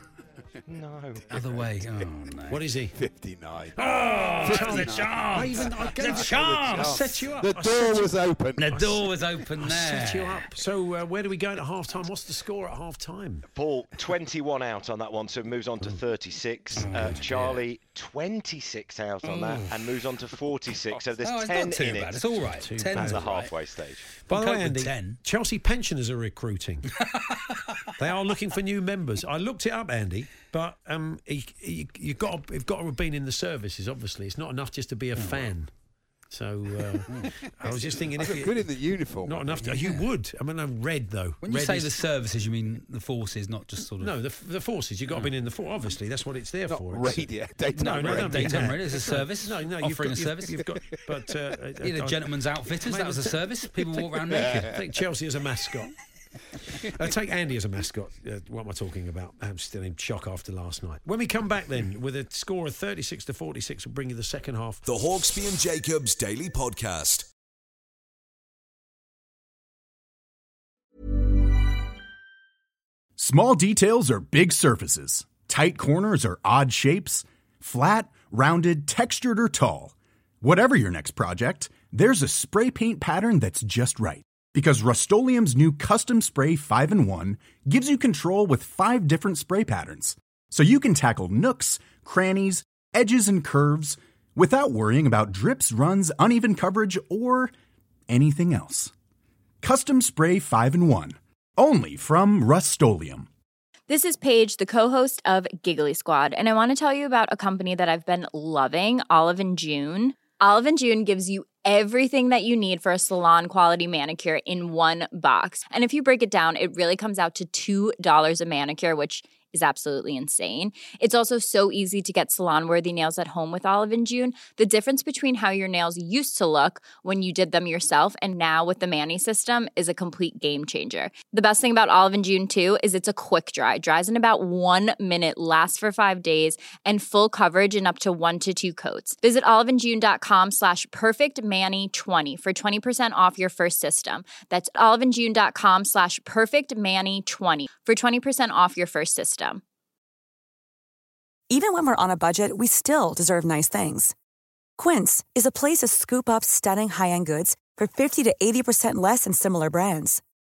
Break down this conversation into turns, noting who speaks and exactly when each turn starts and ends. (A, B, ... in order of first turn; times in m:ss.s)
0:00.7-0:01.2 A
0:01.3-0:02.7 B
0:02.5-0:02.9 C
0:02.9-0:08.8 D
0:03.8-0:08.1 C
0:03.8-0:07.2 B
0:08.6-0:10.5 B
0:08.7-0:09.0 C
0:09.6-0:13.5 C
0:13.5-0:22.3 A
0:16.8-0:17.4 C
0:16.8-0:17.6 B
0:21.2-0:23.5 B
0:22.5-0:23.3 C
0:22.9-0:24.1 A
0:24.3-0:25.2 B
0:24.3-0:27.0 C
0:27.0-0:27.9 B
0:28.0-0:35.7 C
0:35.2-0:35.5 B
0:36.3-0:38.6 C
0:37.1-0:37.3 B
0:37.6-0:39.6 D
0:39.2-0:42.0 C
0:39.6-0:40.1 B
0:41.4-0:44.2 B
0:44.0-0:53.4 C
0:46.7-0:48.8 D
0:47.7-0:50.6 B
0:51.8-0:54.8 B
0:53.9-0:55.9 C
0:54.3-0:54.8 D
0:56.8-1:04.8 C
1:04.8-1:07.3 E
1:13.2-1:37.5 F
1:38.1-1:38.9 F
1:39.6-1:43.3 F
1:43.9-2:29.6 G
2:31.5-2:34.1 H
2:34.8-2:40.2 H